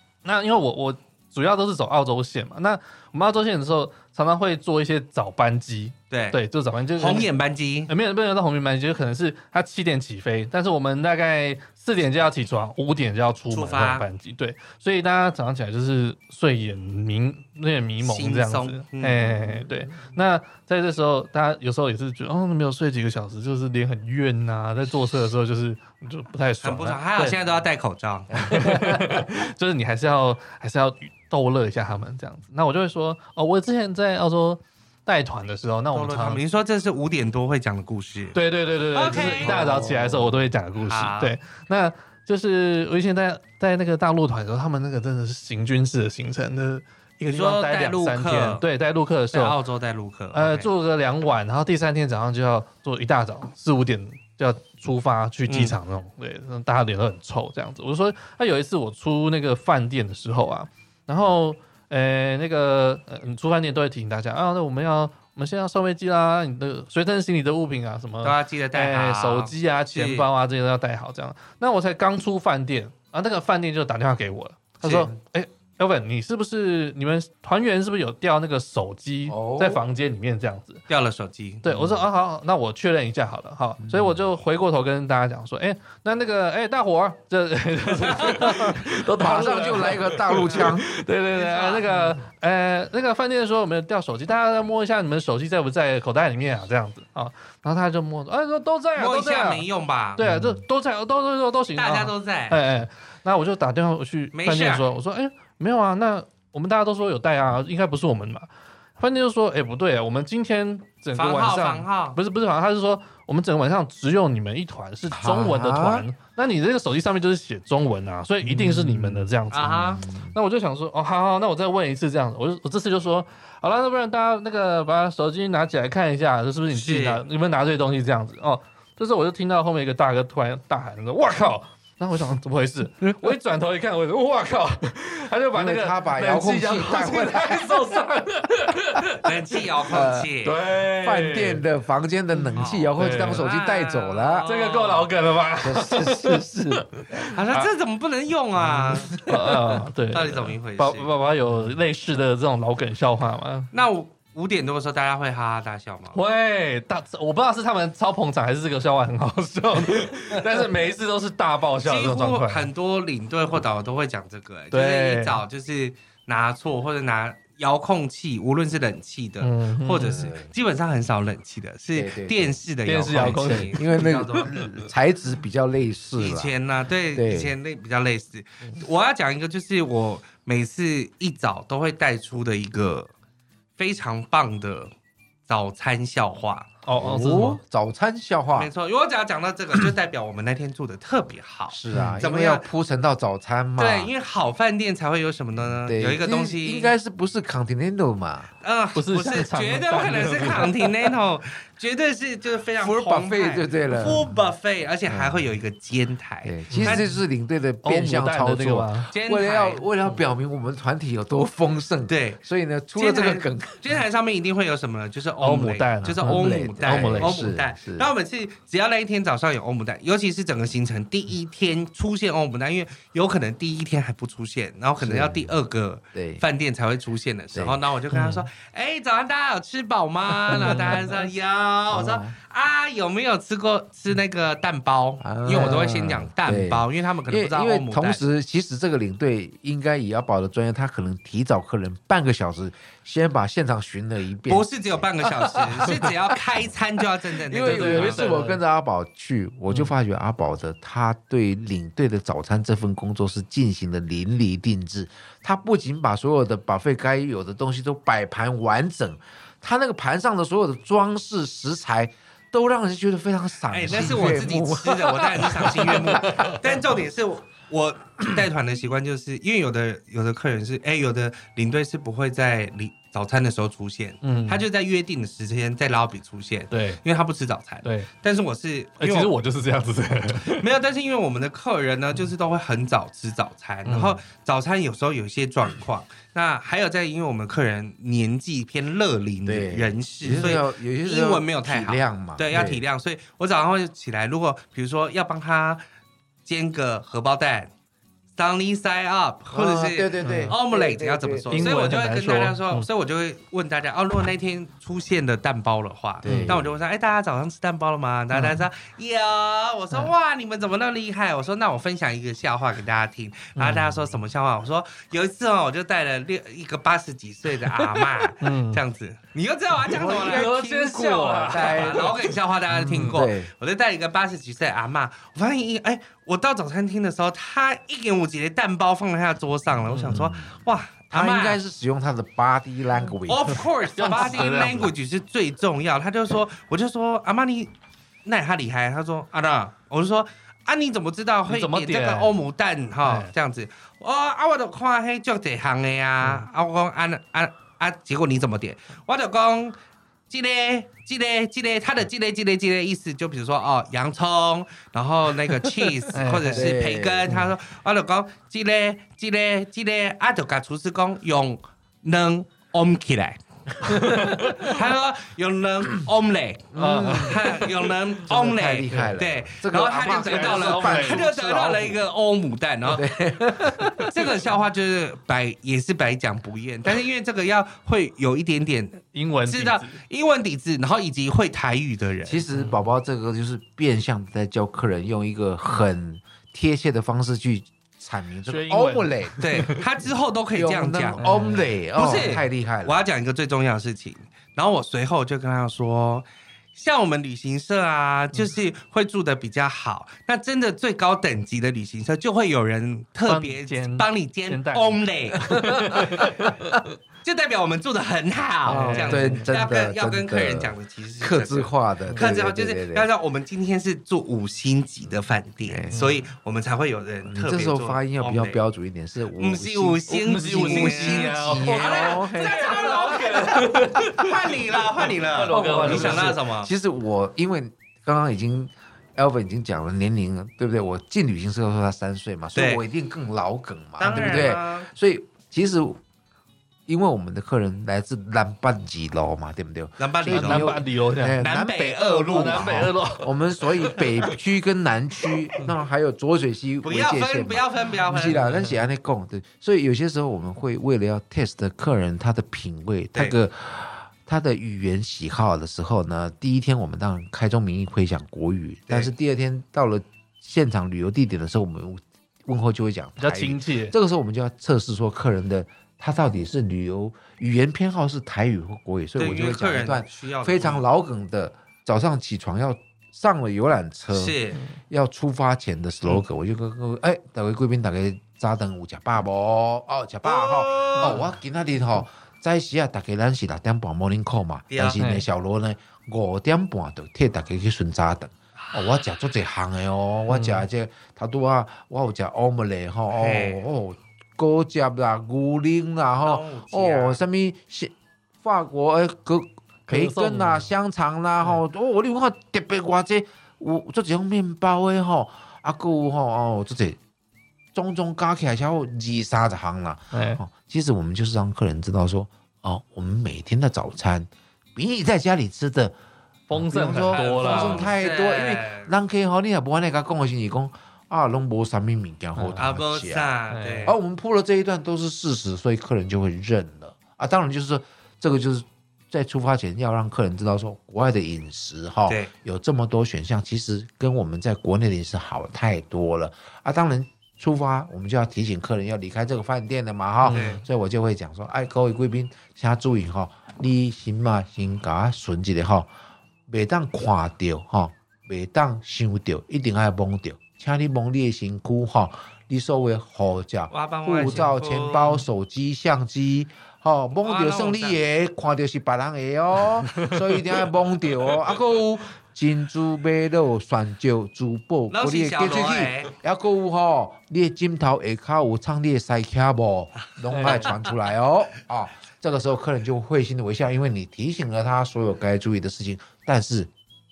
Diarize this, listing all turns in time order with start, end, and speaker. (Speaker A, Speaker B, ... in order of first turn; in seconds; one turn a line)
Speaker A: 0.2-7.3
Speaker B: 6.1-6.4
Speaker B: 6.9-7.9
Speaker A: 7.9-27.4
Speaker B: 13.5-14.1
Speaker B: 18.0-19.3
Speaker C: 19.3-20.1
Speaker B: 26.6-28.5
Speaker C: 28.3-29.4
Speaker A: 28.4-36.4
Speaker B: 35.9-38.4
Speaker A: 38.3-49.5
Speaker B: 38.9-39.7
Speaker C: 39.1-40.5
Speaker B: 40.8-41.4
Speaker B: 47.3-48.6
Speaker B: 49.3-50.7
Speaker A: 50.3-80.8
Speaker B: 55.5-55.8
Speaker B: 68.2-70.3
Speaker B: 74.8-75.1
Speaker C: 79.3-79.8
Speaker B: 80.9-81.7
Speaker A: 81.6-99.7
Speaker C: 81.7-82.1
Speaker C: 83.8-84.2
Speaker B: 88.2-88.5
Speaker C: 89.1-90.9
Speaker B: 91.3-92.2
Speaker B: 99.0-100.2
Speaker A: 100.2-139.3
Speaker C: 100.2-100.6
Speaker B: 101.8-102.6
Speaker B: 104.3-104.9
Speaker B: 111.1-112.2
Speaker C: 115.1-116.0
Speaker C: 118.4-120.4
Speaker B: 119.5-120.0
Speaker B: 126.7-127.2
Speaker C: 135.5-138.0
Speaker B: 139.2-140.6
Speaker C: 139.9-140.3
Speaker A: 140.4-141.6
Speaker C: 141.0-144.5
Speaker A: 142.3-143.5
Speaker B: 142.5-145.1
Speaker A: 144.4-147.7
Speaker C: 145.6-146.8
Speaker B: 147.3-149.3
Speaker A: 148.8-153.7
Speaker C: 148.8-149.4
Speaker B: 150.1-151.1
Speaker B: 153.7-156.2
Speaker A: 156.1-162.7
Speaker B: 161.8-174.6
Speaker A: 164.7-165.4
Speaker A: 169.4-170.3
Speaker C: 170.0-170.5
Speaker C: 171.9-172.6
Speaker A: 172.8-173.8
Speaker C: 173.1-176.5
Speaker A: 174.3-174.6
Speaker B: 176.1-183.1
Speaker C: 177.1-177.5
Speaker B: 183.8-184.9
Speaker B: 185.5-186.7
Speaker A: 186.8-187.6
Speaker C: 186.9-188.7
Speaker B: 188.5-192.7
Speaker C: 191.7-194.1
Speaker A: 191.9-192.2
Speaker B: 193.8-196.9
Speaker C: 195.8-198.5
Speaker B: 198.6-207.1
Speaker A: 198.9-201.1
Speaker C: 202.8-204.3
Speaker C: 205.1-205.5
Speaker C: 206.4-213.8
Speaker A: 206.7-207.2
Speaker A: 207.8-209.1
Speaker B: 209.1-209.9
Speaker B: 212.1-212.4
Speaker B: 212.9-238.2
Speaker A: 215.4-217.4
Speaker C: 216.2-218.1
Speaker C: 225.0-225.6
Speaker C: 226.1-226.4
Speaker C: 227.5-227.8
Speaker A: 228.1-228.4
Speaker C: 230.5-231.1
Speaker A: 230.5-231.2
Speaker C: 231.9-232.3
Speaker C: 235.2-245.1
Speaker A: 235.5-235.8
Speaker B: 244.5-248.3
Speaker A: 245.4-246.1
Speaker C: 247.5-266.6
Speaker A: 247.7-248.6
Speaker B: 263.7-279.3
Speaker A: 274.2-274.6
Speaker A: 276.7-277.0
Speaker A: 277.8-278.1
Speaker A: 279.0-280.6
Speaker B: 280.4-295.8
Speaker A: 283.9-284.2
Speaker C: 289.4-292.8
Speaker B: 296.5-297.7
Speaker B: 298.3-320.6
Speaker C: 299.5-301.9
Speaker A: 300.2-300.6
Speaker A: 301.5-302.9
Speaker C: 306.2-306.7
Speaker A: 306.2-306.6
Speaker A: 308.3-308.6
Speaker A: 313.6-314.1
Speaker A: 317.7-318.8
Speaker C: 319.9-322.3
Speaker A: 320.0-323.2
Speaker B: 321.5-331.6
Speaker C: 322.8-323.5
Speaker A: 329.9-330.1
Speaker C: 330.0-334.9
Speaker B: 333.3-337.7
Speaker A: 333.9-334.9
Speaker B: 338.2-349.8
Speaker A: 341.5-342.4
Speaker A: 343.0-343.3
Speaker B: 350.3-373.0
Speaker A: 356.1-356.8
Speaker C: 356.5-357.5
Speaker A: 363.8-364.8
Speaker C: 366.7-367.4
Speaker A: 366.8-367.9
Speaker C: 368.2-372.0
Speaker A: 368.9-369.2
Speaker A: 369.9-371.3
Speaker C: 372.9-374.1
Speaker B: 374.1-382.4
Speaker A: 379.1-380.0
Speaker C: 382.2-389.5
Speaker A: 382.5-382.9
Speaker A: 388.5-389.7
Speaker B: 389.4-391.2
Speaker C: 390.5-393.0
Speaker A: 391.2-392.5
Speaker B: 391.9-406.3
Speaker A: 403.2-406.8
Speaker B: 407.2-418.6
Speaker A: 408.7-409.5
Speaker C: 408.7-413.1
Speaker A: 412.1-412.3
Speaker C: 415.6-416.0
Speaker A: 415.9-416.2
Speaker C: 417.2-424.2
Speaker B: 419.3-426.7
Speaker A: 420.1-424.5
Speaker A: 425.2-426.4
Speaker C: 425.5-436.0
Speaker B: 432.6-432.8
Speaker B: 434.0-434.9
Speaker C: 436.9-507.0
Speaker B: 440.0-440.8
Speaker A: 440.3-441.5
Speaker B: 441.4-442.8
Speaker A: 442.3-444.3
Speaker A: 445.6-445.8
Speaker B: 446.8-448.5
Speaker A: 448.4-448.9
Speaker A: 463.2-463.9
Speaker B: 469.1-470.8
Speaker B: 474.1-474.6
Speaker B: 480.2-481.2
Speaker A: 480.9-481.4
Speaker B: 484.7-485.0
Speaker A: 484.9-485.3
Speaker A: 490.3-490.7
Speaker B: 493.1-493.6
Speaker B: 496.2-497.2
Speaker A: 499.9-500.7
Speaker C: 507.7-516.0
Speaker A: 510.1-510.4
Speaker A: 516.5-517.9
Speaker C: 516.5-523.3
Speaker B: 516.9-518.9
Speaker A: 522.4-522.7
Speaker B: 522.5-524.0
Speaker A: 523.5-524.0
Speaker C: 523.9-545.9
Speaker A: 540.2-540.6
Speaker B: 540.3-540.6
Speaker C: 546.5-576.7
Speaker B: 553.7-555.2
Speaker A: 554.2-554.5
Speaker B: 557.2-558.0
Speaker A: 559.9-560.4
Speaker B: 564.9-566.1
Speaker A: 570.3-570.8
Speaker B: 570.4-570.8